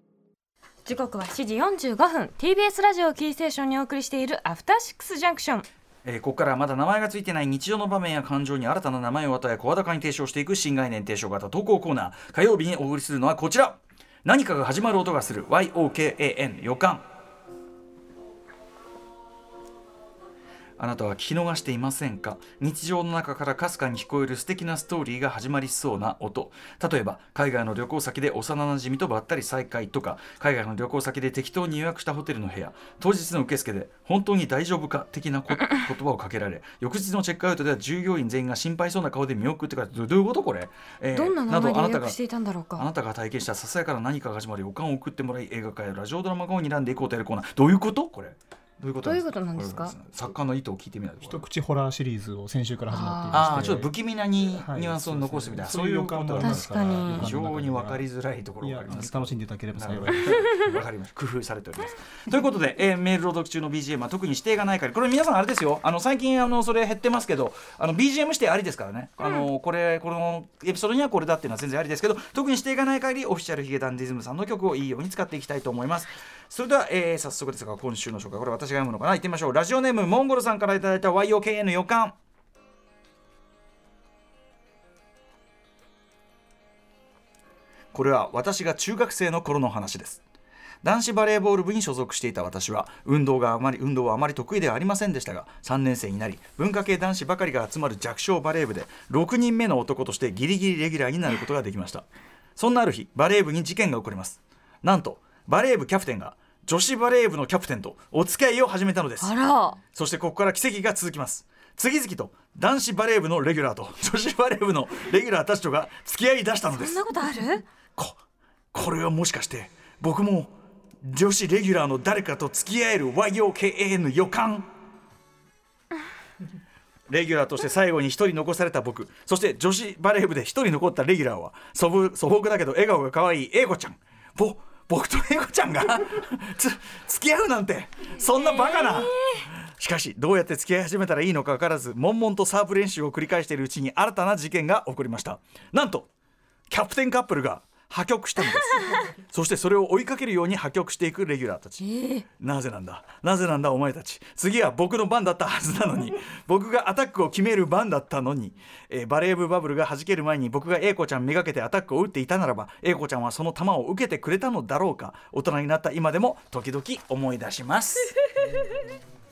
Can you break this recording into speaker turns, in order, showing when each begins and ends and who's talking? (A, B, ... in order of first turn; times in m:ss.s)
0:00.8-0:05.6 A
0:06.0-0:17.0 B
0:20.8-0:42.2 B
0:41.1-0:42.8 A
0:42.8-0:51.4 B
0:49.0-0:49.9 A
0:51.2-0:53.9 C
0:52.9-0:53.6 A
0:53.3-1:22.2 B
0:54.4-0:58.0 C
0:56.4-0:57.3 A
0:58.6-1:00.5 C
1:09.2-1:09.5 A
1:27.9-1:30.2 B
1:30.8-1:42.0 B
1:42.6-1:49.3 B
1:49.2-1:49.8 A
1:49.9-1:57.0 B
1:56.7-1:57.6 A
1:58.7-2:04.7 B
2:07.1-2:19.2 B
2:18.3-2:19.5 A
2:19.8-2:26.1 B
2:26.7-2:48.1 B
2:28.7-2:29.0 A
2:31.8-2:32.2 A
2:48.4-2:48.7 A